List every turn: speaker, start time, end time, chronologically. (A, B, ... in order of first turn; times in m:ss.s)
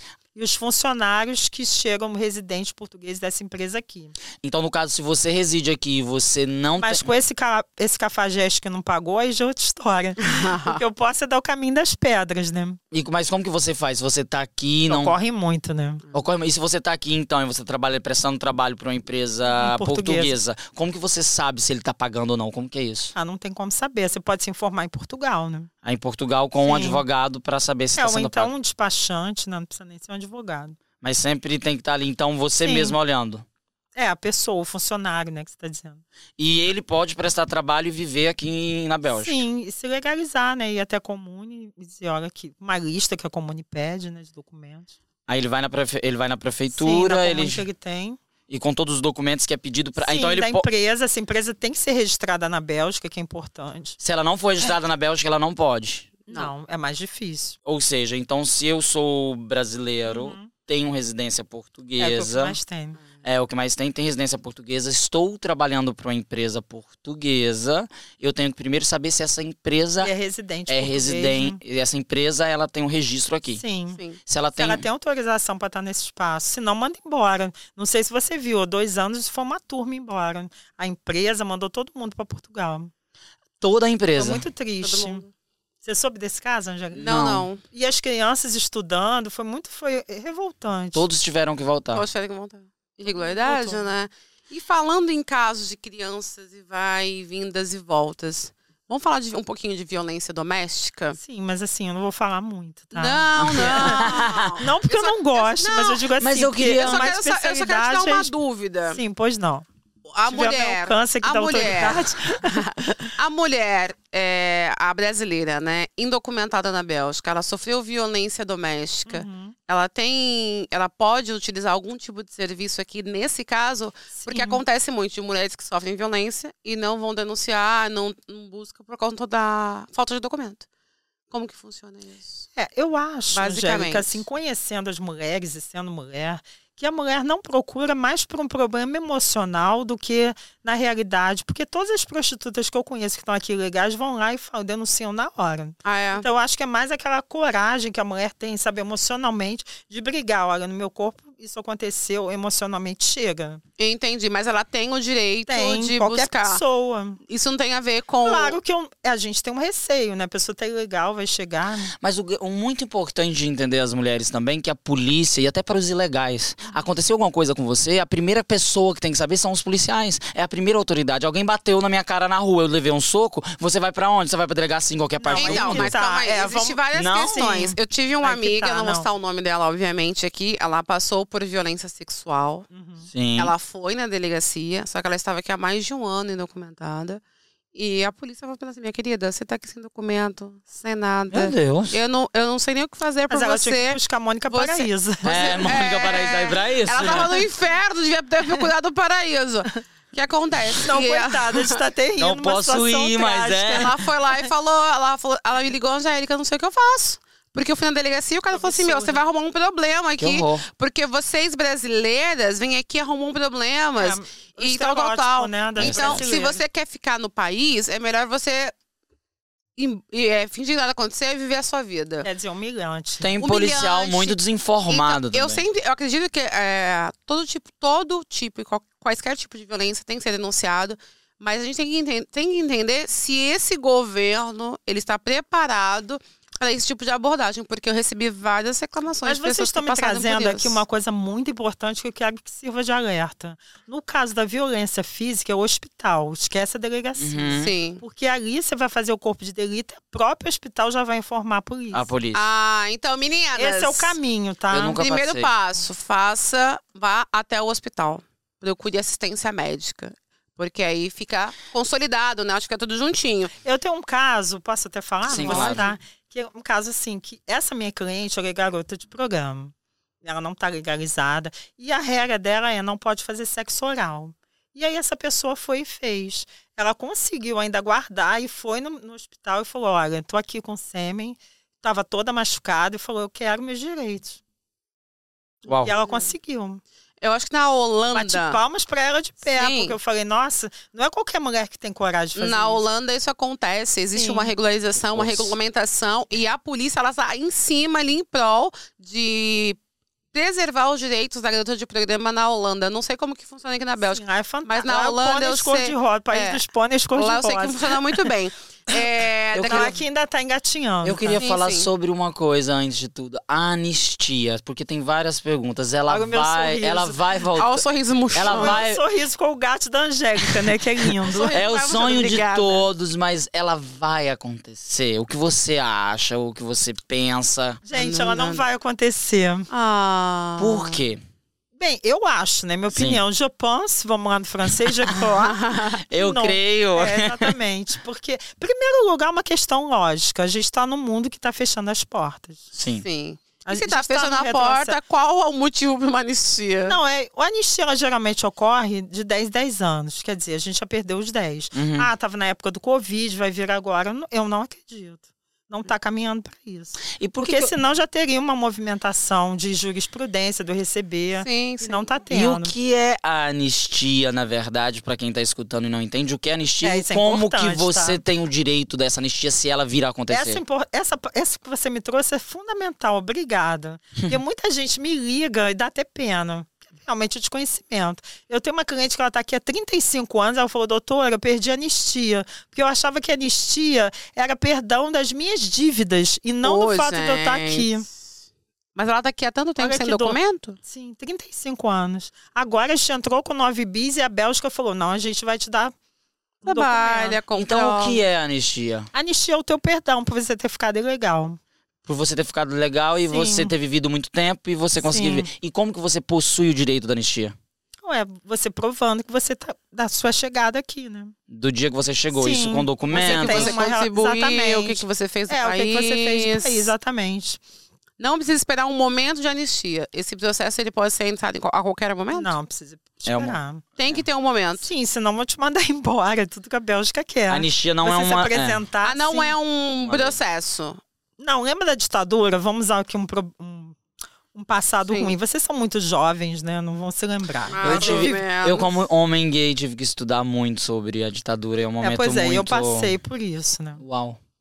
0:00.4-0:04.2 A
0:04.4-0:07.1 B
0:06.8-0:12.8 A
0:10.2-0:10.8 C
0:12.9-0:15.2 B
0:14.9-0:16.0 A
0:16.1-0:23.1 B
0:19.5-0:20.4 A
0:23.2-0:25.7 A
0:25.8-0:28.5 B
0:26.6-0:27.0 A
0:28.0-0:30.8 A
0:31.0-0:33.4 B
0:32.6-0:33.0 A
0:34.0-0:36.0 A
0:36.4-0:39.4 B
0:39.1-0:45.0 A
0:45.3-0:47.7 B
0:46.7-0:48.2 A
0:48.5-0:50.7 B
0:50.0-0:54.0 A
0:54.0-0:56.5 B
0:56.3-0:57.6 A
0:57.7-1:02.6 B
1:00.1-1:00.5 A
1:02.0-1:03.0 A
1:03.2-1:10.1 B
1:10.0-1:11.6 A
1:10.7-1:13.6 B
1:13.6-1:14.0 A
1:13.9-1:14.2 C
1:14.3-1:14.8 B
1:14.6-1:22.9 A
1:23.6-1:24.4 B
1:24.2-1:25.2 A
1:24.8-1:25.3 C
1:25.8-1:31.1 A
1:27.0-1:27.5 B
1:27.0-1:27.6 C
1:30.9-1:32.0 B
1:31.9-1:41.2 C
1:33.1-1:33.9 A
1:41.2-1:48.3 A
1:42.9-1:46.0 C
1:43.4-1:44.6 B
1:46.2-1:47.1 B
1:46.8-1:49.0 C
1:48.9-1:49.7 A
1:50.1-2:10.7 C
1:50.3-1:53.1 A
1:59.1-1:59.6 A
2:04.2-2:04.6 A
2:11.3-2:12.4 C
2:12.6-2:33.6 A
2:13.3-2:14.2 C
2:25.8-2:26.3 C
2:33.8-2:36.6 C
2:35.5-2:37.2 A
2:37.3-2:38.6 C
2:38.2-2:41.9 A
2:42.0-2:55.9 B
2:55.2-2:59.1 A
2:55.4-3:02.7 C
2:56.9-2:57.4 B
3:02.7-3:03.1 A
3:03.1-3:03.5 B
3:03.4-3:07.2 C
3:07.7-3:21.8 C
3:11.3-3:12.0 B
3:13.3-3:15.6 A
3:15.2-3:17.4 B
3:20.8-3:24.0 A
3:22.2-3:23.9 B
3:23.7-3:38.7 C
3:28.5-3:29.2 A
3:30.2-3:30.6 B
3:34.0-3:36.6 A
3:35.8-3:36.3 B
3:39.8-3:42.3 C
3:42.2-3:43.3 A
3:43.2-3:45.6 B
3:43.4-4:00.8 C
3:59.2-4:12.1 A
4:07.2-4:07.7 B
4:07.6-4:08.0 C
4:11.9-4:12.5 B
4:12.3-4:14.2 C
4:13.6-4:15.0 A
4:14.7-4:15.5 B
4:14.9-4:23.5 C
4:23.6-4:44.4 A
4:25.3-4:25.8 B
4:25.3-4:26.0 C
4:45.7-4:46.0 B
4:45.7-4:46.3 C
4:45.8-4:46.8 A
4:47.2-4:48.6 C
4:48.1-4:52.8 A
4:49.5-4:50.0 C
4:52.4-4:59.8 C
4:54.2-4:54.5 A
4:55.0-4:55.6 B
5:00.3-5:06.6 C
5:04.0-5:08.2 A
5:07.2-5:10.0 C
5:09.5-5:10.0 B
5:09.6-5:11.4 A
5:11.0-5:19.0 B
5:11.4-5:11.9 C
5:16.1-5:17.2 A
5:17.6-5:18.8 C
5:18.4-5:22.8 A
5:21.2-5:22.8 C
5:21.5-5:27.8 B
5:27.8-5:29.7 A
5:27.9-5:28.6 C
5:29.7-5:31.0 C
5:30.6-5:31.2 B
5:31.8-5:42.7 A
5:32.9-5:33.2 B
5:35.4-5:36.0 C
5:36.1-5:37.6 B
5:42.7-5:43.0 B
5:43.0-5:47.0 C
5:43.6-5:45.0 A
5:46.9-6:02.7 A
5:51.8-5:52.1 B
5:57.2-5:57.7 B
6:01.4-6:02.1 C
6:02.3-6:10.6 B
6:06.8-6:08.2 A
6:10.3-6:28.1 A
6:26.6-6:27.9 C
6:29.0-6:30.8 C
6:29.8-6:36.0 A
6:36.6-6:37.4 A
6:36.6-6:38.2 C
6:37.6-6:39.1 B
6:39.1-6:41.6 A
6:42.1-6:47.6 B
6:43.3-6:43.7 A
6:45.0-6:45.5 A
6:48.0-6:51.4 A
6:51.5-6:53.8 B
6:52.3-6:57.6 A
6:53.1-6:56.9 C
6:58.2-7:02.6 C
7:02.3-7:03.8 A
7:03.3-7:03.6 B
7:04.0-7:04.9 C
7:04.8-7:09.6 A
7:07.5-7:08.8 B
7:09.0-7:11.0 C
7:10.0-7:10.4 B
7:11.4-7:14.0 A
7:14.5-7:18.4 A
7:15.1-7:15.3 C
7:17.7-7:19.0 C
7:17.8-7:23.2 B
7:22.0-7:24.0 A
7:24.0-7:24.4 B